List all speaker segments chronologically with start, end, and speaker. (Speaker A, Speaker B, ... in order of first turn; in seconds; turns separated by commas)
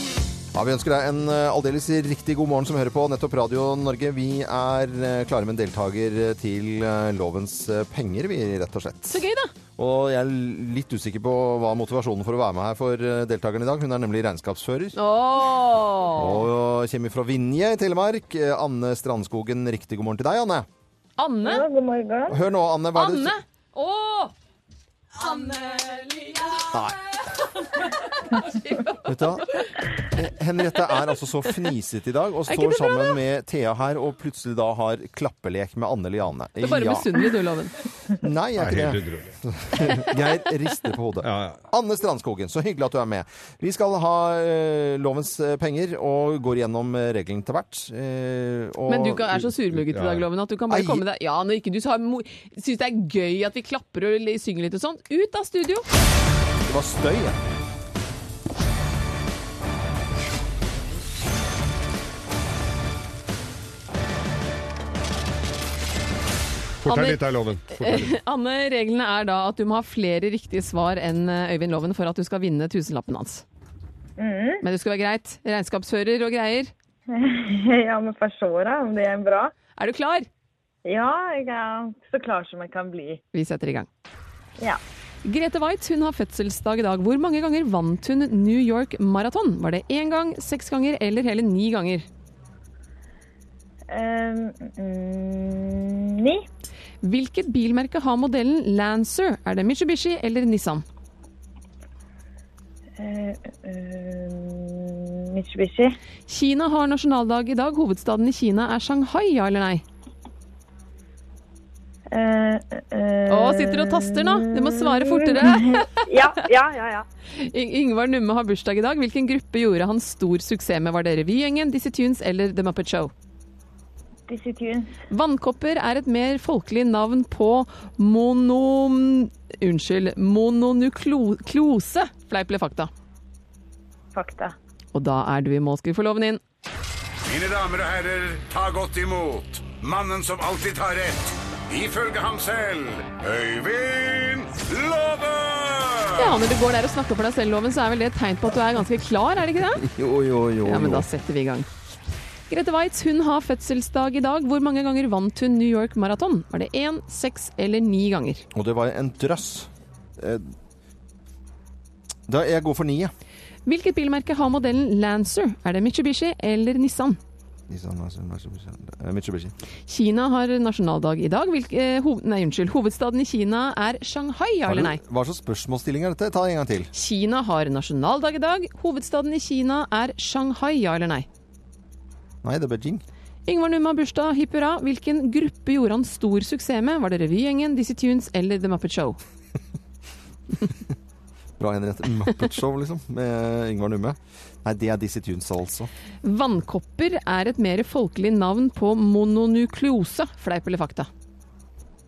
Speaker A: 0.5-9.2, Speaker B: 9.1-9.5, Speaker A: 9.8-15.0, Speaker B: 14.9-16.4, Speaker A: 16.1-20.7, Speaker B: 21.2-21.6, Speaker C: 21.4-22.4, Speaker A: 22.3-23.3, Speaker B: 22.9-24.3, Speaker B: 25.2-26.6, Speaker A: 26.7-27.0, Speaker B: 27.8-29.9, Speaker A: 29.0-29.5, Speaker A: 30.0-37.2, Speaker B: 32.5-33.2, Speaker B: 36.6-37.7, Speaker A: 38.1-49.5, Speaker D: 38.6-39.3, Speaker D: 41.2-41.6, Speaker B: 48.9-55.9, Speaker D: 49.9-50.3, Speaker A: 50.7-51.0, Speaker A: 56.6-57.4, Speaker D: 66.8-68.1, Speaker B: 66.8-67.2, Speaker B: 67.7-73.4, Speaker C: 74.2-74.6, Speaker B: 74.6-76.7, Speaker C: 77.1-79.5, Speaker B: 79.8-80.3, Speaker C: 80.8-83.2, Speaker B: 83.3-83.9, Speaker B: 85.2-92.0, Speaker C: 93.9-96.4, Speaker B: 97.0-100.8, Speaker C: 103.0-106.0, Speaker B: 106.3-109.8, Speaker C: 112.1-117.0, Speaker B: 113.3-116.1, Speaker B: 117.4-123.1, Speaker C: 124.3-125.0, Speaker B: 125.1-132.9, Speaker C: 134.1-134.5, Speaker B: 134.9-136.4, Speaker E: 137.2-146.3, Speaker B: 146.2-149.8, Speaker A: 149.8-151.1, Speaker B: 150.6-151.7, Speaker B: 152.5-158.4, Speaker A: 158.5-160.5, Speaker A: 162.3-163.1, Speaker B: 163.7-167.2, Speaker A: 167.7-169.5, Speaker B: 169.9-175.0, Speaker A: 174.7-176.9, Speaker B: 176.9-181.2, Speaker A: 182.4-183.0, Speaker B: 183.5-189.2, Speaker A: 191.6-195.9, Speaker B: 196.2-201.1